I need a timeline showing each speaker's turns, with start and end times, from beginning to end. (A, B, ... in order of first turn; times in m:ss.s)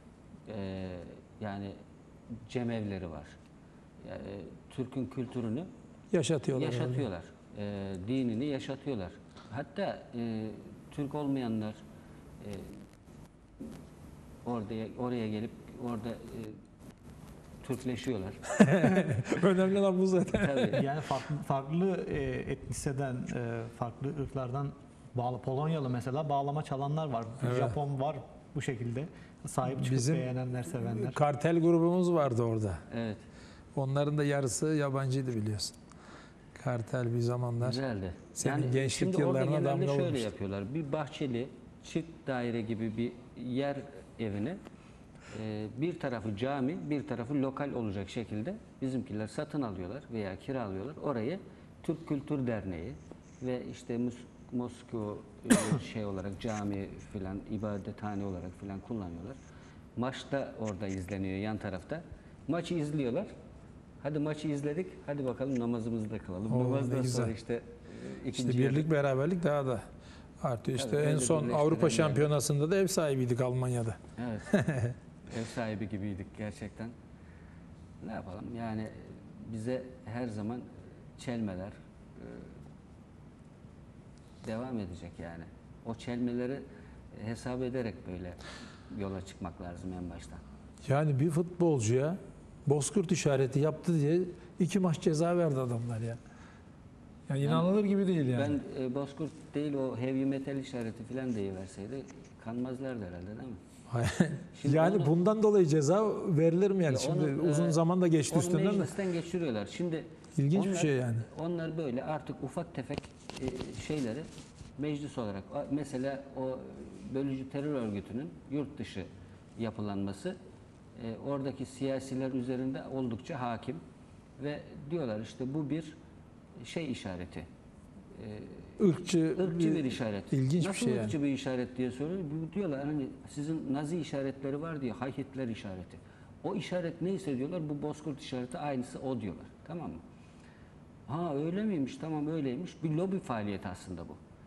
0:00.5-0:01.8 A
0:02.3-0:03.4 A
0:04.0-0:05.7 A
0:06.1-0:07.1 B
0:06.5-0:11.8 A
0:12.4-0:12.8 A
0:14.4-0:16.6 A
0:17.6-0:18.4 A
0:18.5-0:21.0 B
0:20.4-0:20.8 A
0:20.7-0:31.2 C
0:27.4-0:27.8 B
0:29.7-0:32.8 B
0:32.9-0:33.3 A
0:33.8-0:35.8 B
0:36.6-0:37.8 B
0:37.6-0:44.6 A
0:38.4-0:40.3 B
0:45.3-0:59.4 A
1:00.0-1:03.3 A
1:04.0-1:08.9 A
1:06.5-1:07.3 B
1:08.4-1:09.9 B
1:10.4-1:14.0 B
1:10.8-1:12.3 A
1:14.2-1:14.5 A
1:14.5-1:15.0 B
1:15.3-1:17.0 A
1:18.0-1:22.5 A
1:24.4-1:30.4 A
1:30.8-1:36.2 B
1:37.3-1:38.6 B
1:37.4-1:37.7 A
1:38.3-1:43.6 A
1:43.9-1:48.9 B
1:44.6-1:45.1 A
1:46.9-2:00.4 A
1:50.4-1:51.3 B
2:01.0-2:03.8 A
2:04.4-2:06.0 A
2:06.6-2:07.5 A
2:08.2-2:20.0 A
2:08.8-2:11.2 B
2:21.1-2:24.2 A